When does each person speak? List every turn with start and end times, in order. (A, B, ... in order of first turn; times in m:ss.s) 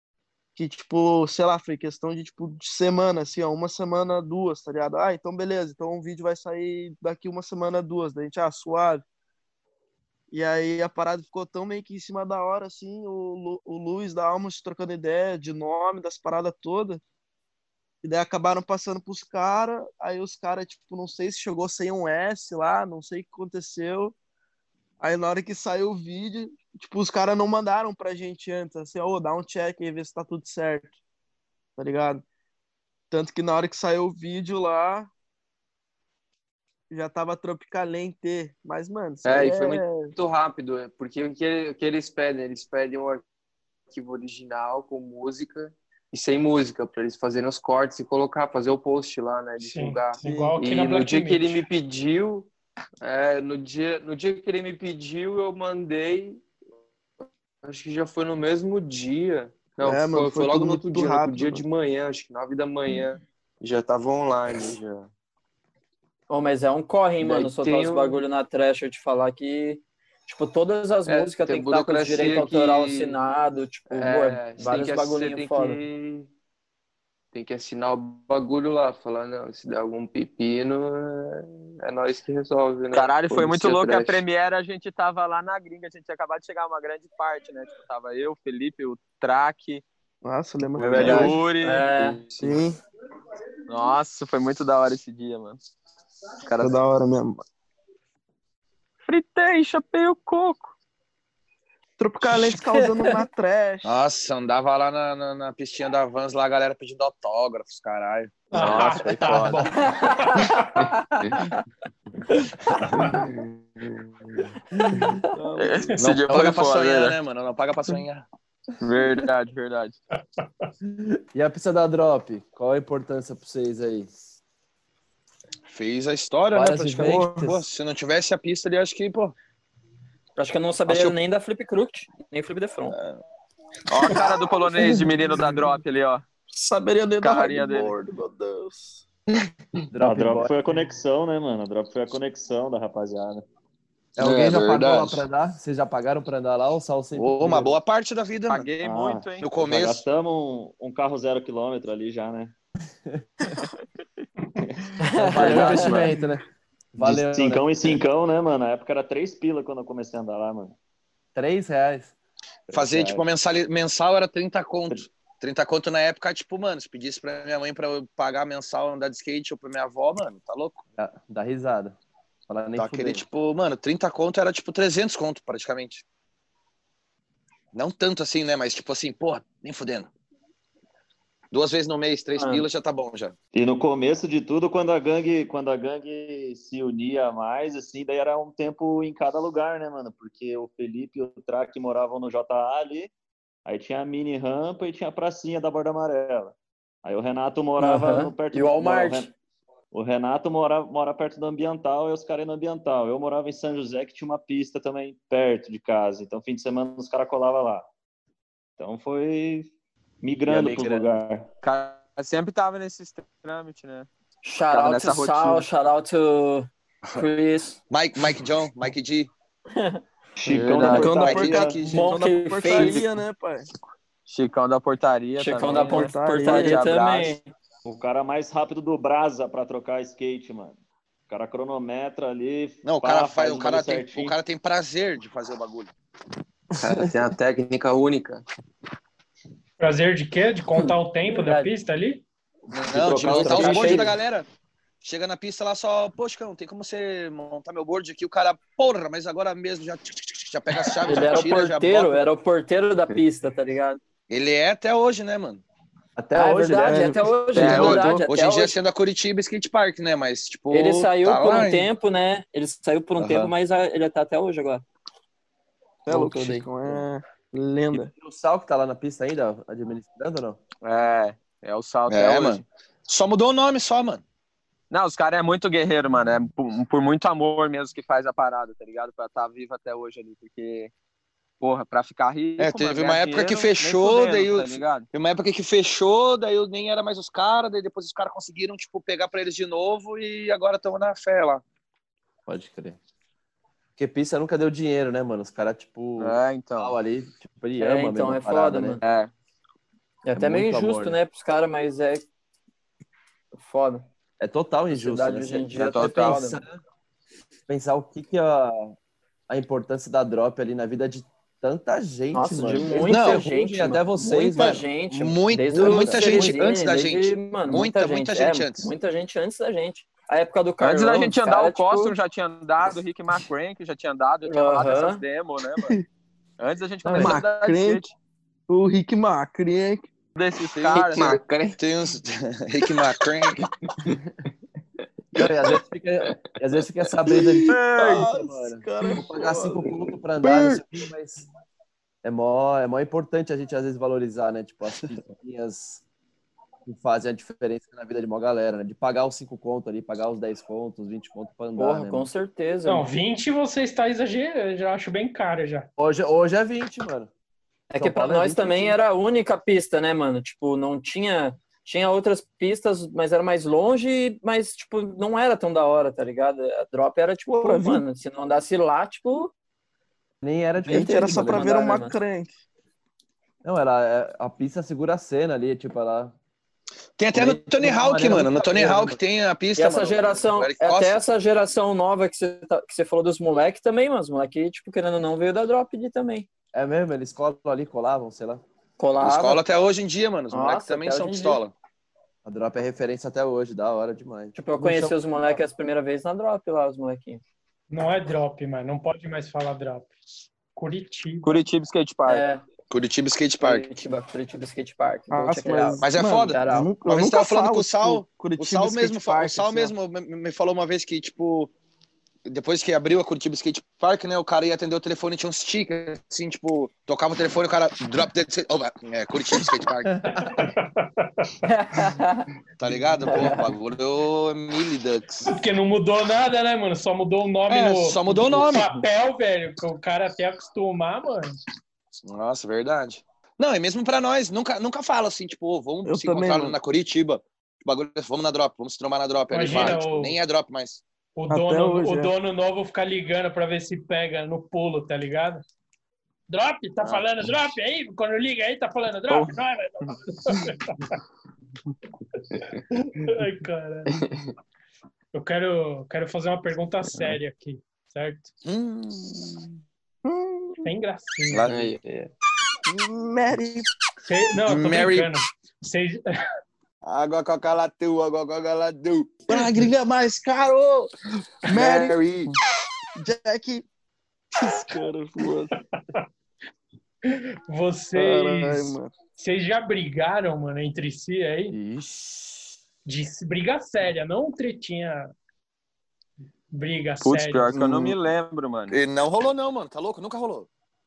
0:00.6-0:09.0 A
0:10.3-0:17.0 A
0:18.0-0:24.2 A
0:25.0-0:30.9 A
0:31.8-0:32.2 A
0:33.1-0:35.1 A
0:36.9-0:40.1 A
0:39.2-0:43.2 B
0:43.9-0:52.5 B
0:49.6-0:51.6 C
0:50.2-0:50.6 A
0:53.0-0:56.4 B
0:57.6-1:05.1 B
0:59.8-1:01.6 A
1:06.3-1:15.8 D
1:07.2-1:08.2 B
1:11.1-1:13.2 B
1:13.9-1:16.3 B
1:17.3-1:24.2 B
1:22.9-1:29.8 E
1:30.2-1:31.4 A
1:30.8-1:32.6 E
1:30.9-1:31.3 F
1:31.0-1:32.2 D
1:32.4-1:32.8 A
1:33.7-1:35.6 E
1:36.4-1:36.7 E
1:36.6-1:37.4 A
1:39.1-1:40.7 E
1:42.0-1:43.9 A
1:43.8-1:49.2 G
1:48.5-1:50.9 C
1:48.6-1:49.6 F
1:49.8-1:50.6 D
1:53.2-1:54.0 B
1:55.3-1:56.0 A
1:55.6-1:57.2 E
1:56.0-1:58.3 G
1:58.8-2:00.0 E
2:00.4-2:00.7 C
2:00.9-2:04.3 F
2:05.7-2:09.4 G
2:06.5-2:07.7 F
2:10.4-2:13.0 D
2:10.9-2:11.2 G
2:13.9-2:16.2 E
2:14.0-2:15.1 A
2:16.5-2:19.0 A
2:17.2-2:17.9 E
2:19.9-2:20.5 F
2:20.0-2:23.4 H
2:24.2-2:25.2 G
2:24.2-2:27.8 F
2:27.1-2:28.7 G
2:28.5-2:29.5 E
2:28.8-2:32.5 H
2:29.4-2:30.0 G
2:35.0-2:36.0 D
2:35.1-2:36.4 F
2:35.3-2:36.1 E
2:36.9-2:38.0 F
2:37.0-2:40.8 H
2:41.4-2:42.2 F
2:42.7-2:43.2 H
2:42.7-2:50.8 G
2:42.8-2:43.2 F
2:51.0-2:53.2 F
2:52.8-2:56.0 G
2:57.7-3:00.1 G
3:01.5-3:03.4 G
3:02.4-3:02.6 D
3:03.5-3:13.1 H
3:13.6-3:19.3 H
3:17.8-3:19.3 D
3:19.9-3:27.9 H
3:28.8-3:31.5 H
3:30.5-3:31.2 F
3:31.6-3:34.1 E
3:34.4-3:37.8 D
3:34.7-3:35.6 E
3:37.9-3:39.3 G
3:39.7-3:40.0 D
3:40.4-3:41.8 H
3:40.4-3:41.1 E
3:40.8-3:42.2 G
3:40.8-3:43.7 A
3:41.8-3:43.1 D
3:44.3-3:47.4 E
3:45.4-3:47.4 D
3:45.7-3:46.8 A
3:47.8-3:50.8 H
3:51.3-3:54.4 H
3:52.8-3:55.9 G
3:56.8-3:58.4 B
3:59.8-4:02.2 C
4:00.8-4:01.7 D
4:02.7-4:04.1 H
4:02.7-4:04.5 G
4:03.2-4:04.2 D
4:05.0-4:12.2 G
4:11.0-4:14.0 D
4:14.3-4:15.6 G
4:16.2-4:17.3 F
4:16.3-4:18.7 D
4:16.8-4:18.2 A
4:17.6-4:18.1 E
4:17.6-4:21.9 G
4:20.7-4:24.8 D
4:26.1-4:28.1 A
4:26.1-4:27.0 F
4:27.9-4:30.6 F
4:30.8-4:32.6 E
4:32.1-4:34.2 G
4:34.9-4:40.9 E
4:41.6-4:45.1 E
4:42.6-4:51.6 G
4:52.5-4:53.0 F
4:54.0-4:59.0 F
4:56.2-4:57.0 E
4:57.8-4:59.0 D
4:59.0-4:59.3 E
5:00.2-5:02.2 D
5:00.3-5:01.2 F
5:03.6-5:04.0 D
5:04.4-5:06.8 F
5:04.9-5:06.6 D
5:05.7-5:06.4 E
5:07.7-5:09.0 F
5:09.5-5:14.8 F
5:12.3-5:22.2 D
5:13.1-5:13.4 G
5:14.6-5:18.9 G
5:15.8-5:16.6 F
5:20.8-5:26.0 E
5:24.5-5:25.2 D
5:26.6-5:28.1 E
5:27.1-5:27.4 F
5:27.1-5:28.0 A
5:28.7-5:30.1 A
5:30.4-5:31.4 E
5:30.8-5:31.8 B
5:31.8-5:33.6 G
5:35.4-5:41.4 F
5:35.4-5:36.6 B
5:37.3-5:39.9 A
5:37.7-5:38.3 E
5:40.4-5:40.8 B
5:42.2-5:46.0 F
5:46.9-5:52.3 F
5:51.8-5:53.1 D
5:52.9-5:55.9 C
5:56.0-5:57.3 F
5:57.9-6:09.5 D
5:57.9-5:59.0 F
6:07.5-6:08.0 A
6:10.4-6:12.0 F
6:10.8-6:12.2 D
6:10.9-6:12.5 A
6:13.6-6:16.3 F
6:17.2-6:21.2 G
6:17.3-6:19.2 F
6:19.8-6:26.5 D
6:26.7-6:28.6 F
6:29.0-6:29.6 D
6:29.2-6:31.7 G
6:30.5-6:31.6 D
6:32.4-6:35.2 F
6:34.6-6:37.4 D
6:37.9-6:41.6 C
6:41.4-6:42.4 E
6:42.3-6:42.6 D
6:42.9-6:43.9 G
6:43.6-6:46.9 D
6:45.3-6:49.9 A
6:46.0-6:51.7 G
6:52.5-7:00.2 G
7:00.3-7:01.6 C
7:01.6-7:02.5 D
7:02.8-7:05.4 G
7:03.2-7:03.7 D
7:05.4-7:11.6 C
7:07.7-7:08.9 G
7:12.2-7:21.0 G
7:16.0-7:16.8 A
7:19.5-7:20.4 C
7:21.4-7:25.6 C
7:21.5-7:22.3 A
7:26.5-7:31.2 C
7:32.9-7:34.2 C
7:34.1-7:34.4 B
7:35.3-7:38.5 C
7:38.6-7:39.7 G
7:40.2-7:40.9 A
7:40.8-7:41.8 C
7:41.5-7:41.8 G
7:41.6-7:42.3 B
7:42.9-7:43.9 A
7:44.3-7:46.2 C
7:44.6-7:45.3 G
7:47.0-7:51.1 G
7:49.5-7:50.8 A
7:51.7-7:52.2 A
7:51.7-7:52.4 G
7:53.2-7:53.9 A
7:54.6-7:55.7 A
7:55.7-7:56.3 C
7:57.2-8:01.8 C
7:58.2-7:59.2 A
8:01.7-8:02.8 F
8:03.1-8:05.3 C
8:06.7-8:07.8 C
8:07.2-8:09.0 E
8:07.7-8:08.2 A
8:08.9-8:10.7 G